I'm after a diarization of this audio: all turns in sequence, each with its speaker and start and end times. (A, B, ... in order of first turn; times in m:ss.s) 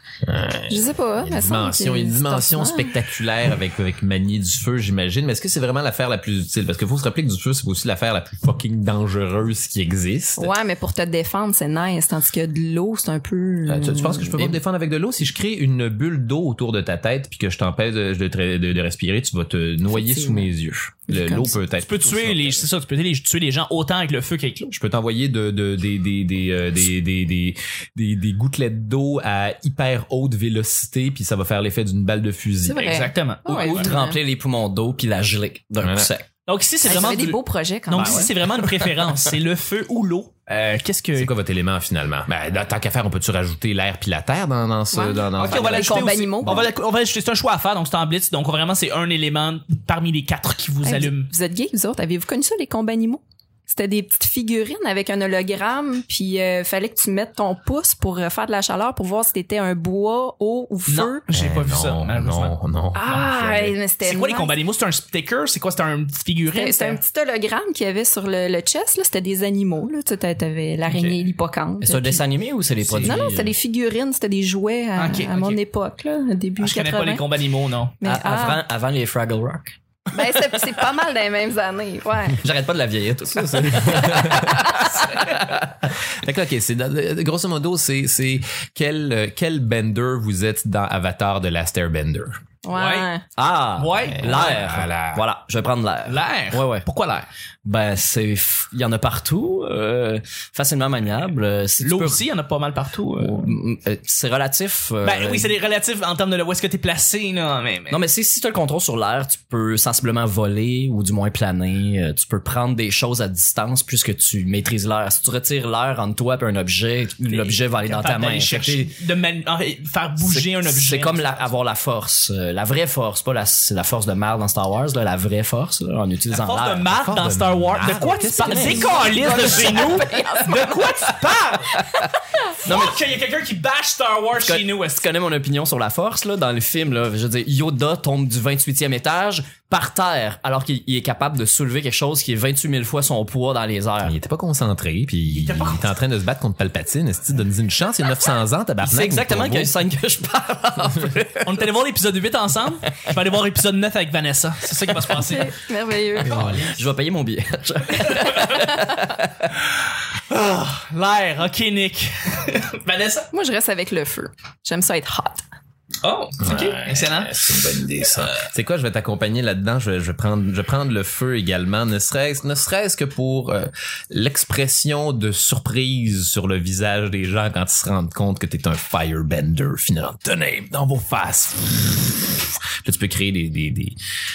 0:00.2-0:10.5 A
0:00.7-0:02.9 B
0:10.4-0:14.5 B
0:13.7-0:22.6 A
0:19.9-0:20.5 B
0:21.1-0:21.5 B
0:21.8-0:24.8 C
0:24.7-0:33.0 A
0:32.7-0:34.2 B
0:32.8-0:33.8 C
0:33.5-0:36.3 D
0:35.8-0:36.1 A
0:36.5-0:41.3 C
0:36.8-0:38.3 B
0:38.0-0:38.3 D
0:41.2-0:46.6 A
0:44.9-0:46.7 B
0:45.4-0:51.3 C
0:50.8-1:01.2 B
1:00.9-1:02.6 C
1:01.3-1:03.8 A
1:03.0-1:04.6 B
1:04.0-1:07.0 C
1:06.5-1:12.3 B
1:11.8-1:13.6 D
1:12.9-1:13.2 A
1:13.0-1:17.3 B
1:15.0-1:15.6 C
1:16.6-1:18.0 C
1:18.0-1:18.7 B
1:18.0-1:19.7 D
1:20.1-1:22.4 B
1:22.4-1:24.6 D
1:23.5-1:32.4 A
1:23.9-1:25.0 B
1:32.6-1:33.2 B
1:32.7-1:33.2 C
1:33.4-1:36.9 D
1:33.8-1:34.5 C
1:34.1-1:35.2 A
1:36.1-1:37.3 C
1:37.6-1:42.2 D
1:41.8-1:43.6 C
1:43.2-1:45.6 D
1:45.0-1:48.0 C
1:47.9-1:59.0 D
1:57.2-2:01.5 C
2:00.2-2:06.9 D
2:06.4-2:11.9 C
2:06.9-2:09.2 A
2:08.4-2:10.3 D
2:09.1-2:10.9 B
2:12.6-2:13.0 D
2:12.6-2:15.1 C
2:14.4-2:24.2 D
2:24.0-2:29.7 A
2:25.3-2:25.9 C
2:28.8-2:31.6 D
2:31.4-2:35.5 C
2:35.1-2:36.6 B
2:36.2-2:39.1 D
2:36.3-2:36.7 A
2:38.0-2:38.9 C
2:38.6-2:39.0 B
2:40.3-2:43.3 C
2:43.3-2:45.4 B
2:46.0-2:47.3 C
2:46.4-3:04.0 A